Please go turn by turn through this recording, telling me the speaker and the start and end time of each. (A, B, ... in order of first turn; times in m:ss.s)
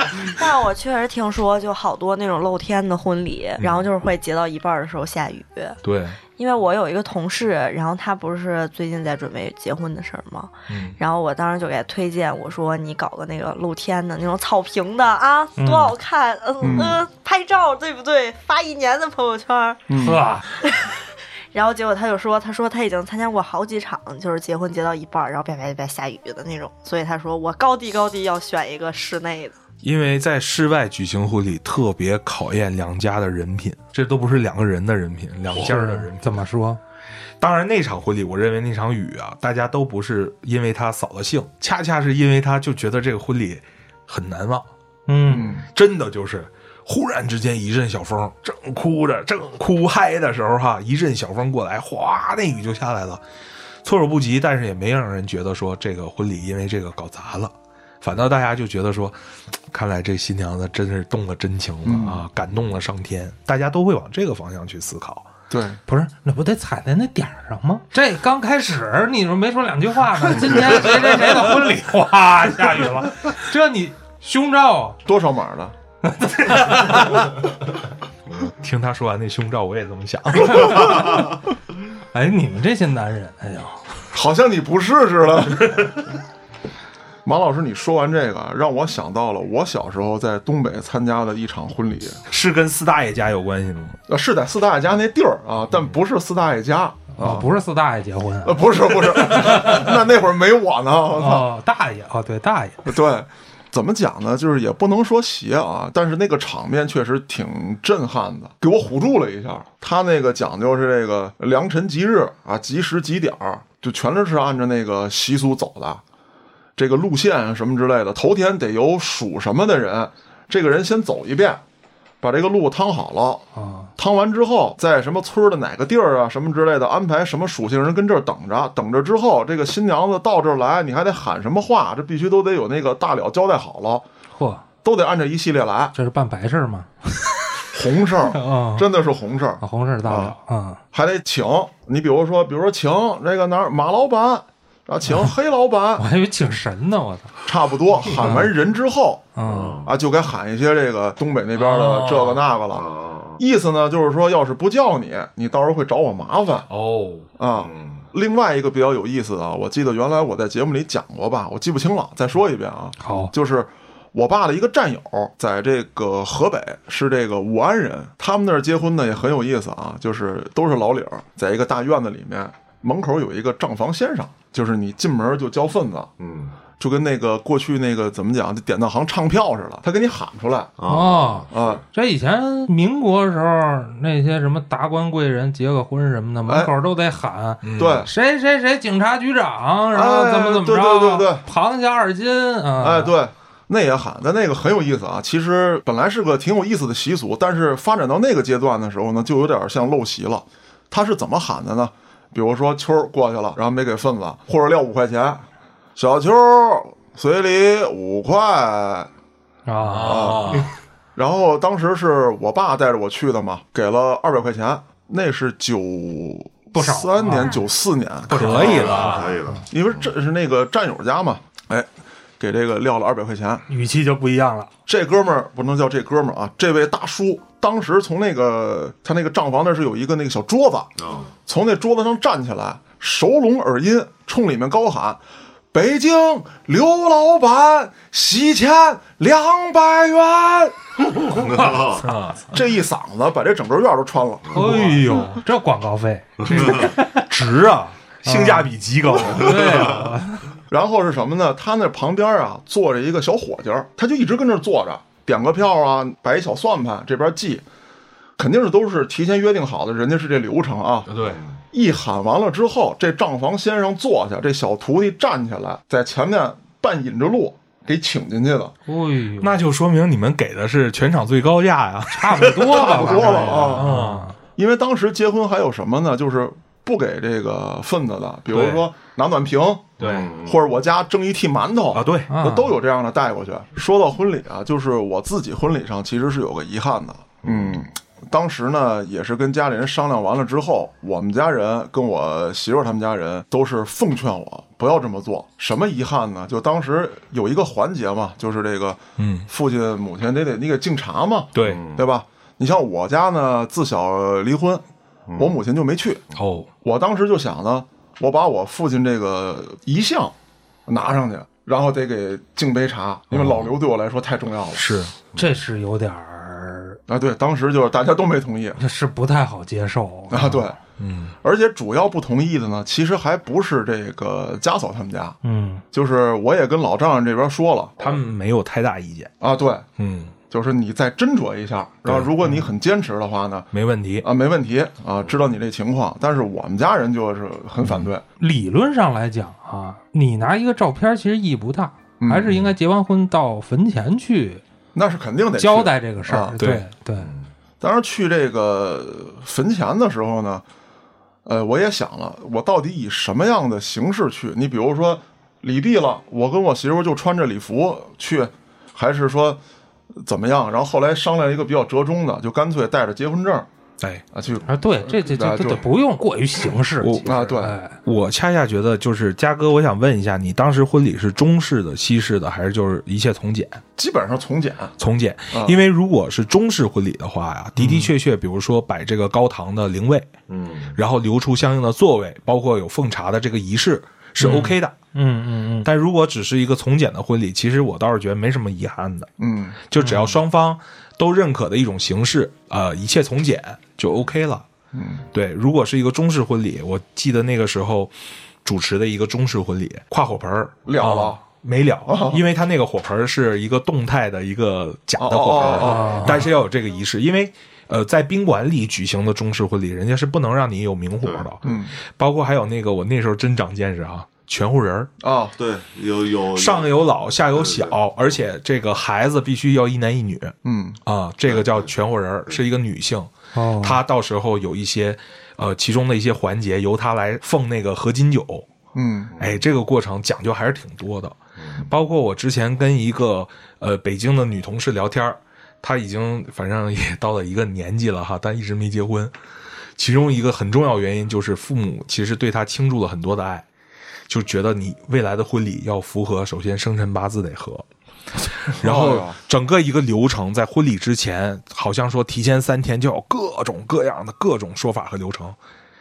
0:00.2-0:05.8 A
0:03.6-0:03.8 B
0:05.8-0:06.2 B
0:06.4-0:19.8 A
0:10.7-0:11.0 B
0:15.6-0:15.9 C
0:16.6-0:17.0 D
0:19.9-0:20.2 D
0:19.9-0:20.4 C
0:20.6-0:29.6 A
0:29.8-0:36.4 B
0:35.5-0:36.8 C
0:37.4-0:44.7 B
0:45.1-0:45.6 C
0:45.3-0:45.6 D
0:45.6-0:53.2 B
0:53.8-0:59.2 B
0:59.7-1:05.3 B
1:01.8-1:02.2 D
1:05.5-1:05.8 D
1:05.9-1:15.0 C
1:15.0-1:15.7 D
1:16.0-1:17.3 C
1:18.4-1:21.2 B
1:22.1-1:23.8 C
1:24.1-1:25.8 D
1:27.2-1:32.2 D
1:32.3-1:34.0 B
1:34.1-1:37.5 D
1:37.2-1:39.9 C
1:38.4-1:41.5 D
1:41.1-1:42.8 C
1:42.8-1:56.0 D
1:56.8-2:01.6 D
2:02.2-2:03.4 D
2:03.5-2:03.9 C
2:04.0-2:14.0 D
2:14.3-2:14.6 C
2:14.8-2:15.9 D
2:15.9-2:17.3 C
2:17.7-2:20.4 D
2:18.3-2:18.9 C
2:19.6-2:20.8 C
2:20.9-2:26.0 D
2:26.0-2:27.3 C
2:27.4-2:29.2 D
2:28.0-2:28.5 C
2:29.3-2:29.8 C
2:29.4-2:29.9 E
2:29.8-2:36.7 D
2:31.6-2:32.4 B
2:32.7-2:33.4 E
2:36.7-2:37.3 B
2:37.4-2:56.1 D
2:37.6-2:38.0 E
2:43.0-2:43.3 C
2:56.2-2:56.5 E
2:56.8-3:00.8 D
3:00.8-3:01.8 E
3:00.9-3:13.1 C
3:01.5-3:01.8 D
3:06.4-3:06.7 D
3:07.6-3:08.0 B
3:07.8-3:08.1 D
3:09.9-3:11.4 D
3:12.8-3:29.1 D
3:29.6-3:30.6 C
3:29.8-3:30.7 B
3:30.0-3:30.6 D
3:31.2-3:41.9 D
3:36.7-3:37.6 C
3:38.3-3:39.4 B
3:38.3-3:39.6 C
3:38.4-3:40.1 E
3:42.4-3:43.6 D
3:43.7-3:44.7 C
3:44.8-3:50.9 D
3:51.0-3:51.2 E
3:51.4-3:55.2 D
3:55.7-4:00.7 D
4:01.4-4:02.0 E
4:01.9-4:02.5 B
4:02.5-4:05.2 D
4:04.5-4:07.2 C
4:06.4-4:10.0 B
4:08.2-4:10.6 C
4:10.7-4:17.6 D
4:18.4-4:21.1 D
4:21.1-4:21.4 B
4:21.7-4:28.7 D
4:28.9-4:29.5 C
4:29.4-4:34.3 B
4:32.1-4:34.4 C
4:32.7-4:33.9 D
4:34.5-5:04.8 D
4:38.5-4:38.9 B
4:40.0-4:40.3 B
4:40.0-4:40.6 E
4:41.9-4:42.3 B
4:42.3-4:42.7 C
4:47.4-4:47.8 E
4:59.2-4:59.5 B
5:01.5-5:01.8 B
5:01.6-5:02.0 E
5:05.3-5:05.5 E
5:05.4-5:06.2 D
5:06.3-5:06.7 B
5:06.8-5:10.3 D
5:10.9-5:14.8 D
5:13.3-5:13.6 B
5:14.7-5:15.2 B
5:15.3-5:17.0 C
5:17.1-5:18.8 D
5:18.8-5:20.7 C
5:20.3-5:20.8 D
5:21.0-5:21.3 B
5:21.4-5:25.4 D
5:25.4-5:25.8 C
5:25.9-5:28.0 D
5:28.0-5:29.3 B
5:29.4-5:29.9 D
5:30.0-5:30.3 B
5:30.5-5:33.7 D
5:32.0-5:32.4 B
5:33.7-5:34.2 B
5:34.2-5:38.2 D
5:38.4-5:44.6 C
5:42.2-5:42.5 D
5:44.9-5:46.6 D
5:45.6-5:47.3 C
5:46.6-5:46.8 B
5:47.8-5:50.6 D
5:51.4-5:59.6 D
6:00.2-6:03.7 D
6:04.3-6:05.8 D
6:04.7-6:08.0 C
6:07.0-6:07.5 B
6:07.2-6:07.8 D
6:08.0-6:13.8 B
6:14.0-6:14.9 D
6:15.0-6:20.3 B
6:15.5-6:15.8 D
6:17.8-6:18.1 C
6:20.5-6:21.0 E
6:20.9-6:25.0 B
6:24.4-6:25.9 C
6:25.8-6:29.3 B
6:29.4-6:29.8 D
6:29.9-6:34.6 B
6:30.0-6:30.4 C
6:34.9-6:35.2 D
6:35.3-6:38.1 B
6:38.6-6:55.1 B
6:40.8-6:41.4 D
6:42.0-6:42.4 D
6:45.2-6:46.4 D
6:45.8-6:46.4 C
6:51.2-6:51.5 E
6:51.6-6:51.9 D
6:55.2-6:55.6 D
6:55.6-6:58.0 E
6:56.5-7:08.6 B
7:00.6-7:01.0 D
7:01.4-7:01.9 E
7:03.5-7:04.0 C
7:08.9-7:09.3 D
7:09.3-7:09.6 E
7:09.4-7:19.3 B
7:11.6-7:11.9 E
7:20.0-7:23.6 B
7:24.3-7:27.8 B
7:28.4-7:35.6 B
7:28.8-7:29.4 D